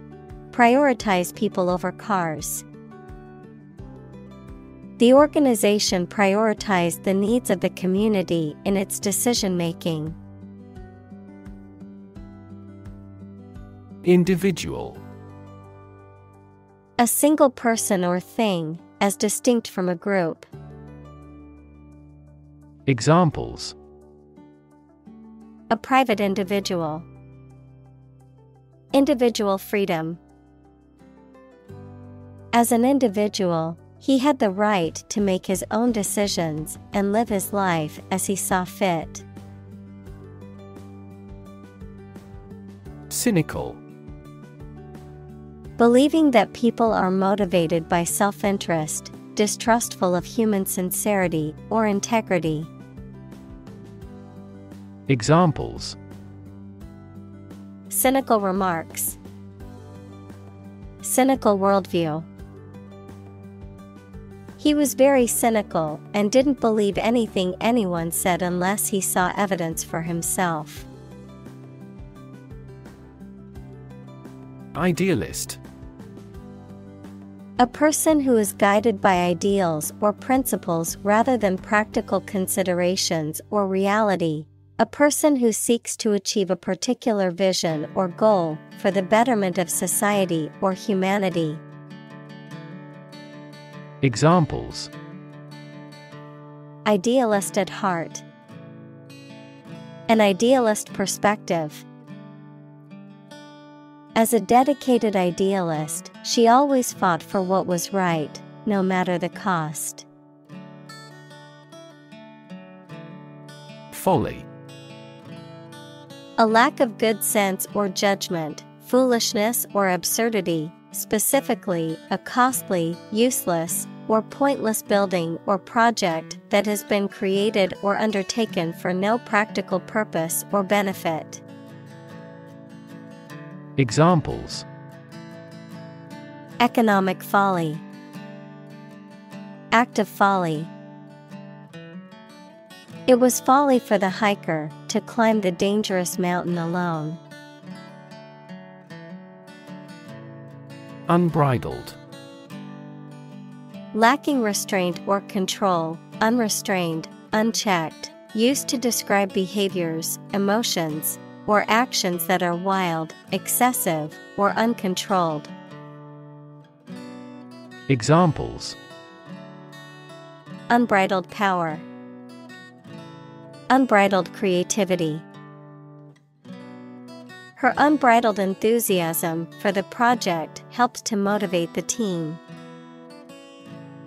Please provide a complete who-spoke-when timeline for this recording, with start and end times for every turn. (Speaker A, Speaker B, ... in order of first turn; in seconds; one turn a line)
Speaker A: 0.5-2.7
Speaker A: 5.0-10.2
Speaker B: 14.0-15.0
Speaker A: 17.0-20.5
Speaker B: 22.9-23.8
Speaker A: 25.7-27.1
Speaker A: 28.9-30.2
Speaker A: 32.5-39.3
Speaker B: 43.1-43.8
Speaker A: 45.8-52.7
Speaker B: 55.1-56.0
Speaker A: 57.9-59.2
Speaker A: 61.0-62.3
Speaker A: 64.6-70.9
Speaker B: 74.7-75.6
Speaker A: 77.6-91.6
Speaker B: 94.0-94.9
Speaker A: 96.8-98.2
Speaker A: 100.1-101.8
Speaker A: 104.2-110.1
Speaker B: 113.9-114.5
Speaker A: 116.4-131.4
Speaker B: 133.8-134.7
Speaker A: 136.6-137.8
Speaker A: 139.7-140.7
Speaker A: 143.1-147.2
Speaker B: 151.1-152.0
Speaker A: 153.9-165.5
Speaker B: 167.9-168.8
Speaker A: 170.7-171.9
Speaker A: 173.7-175.3
Speaker A: 177.6-182.4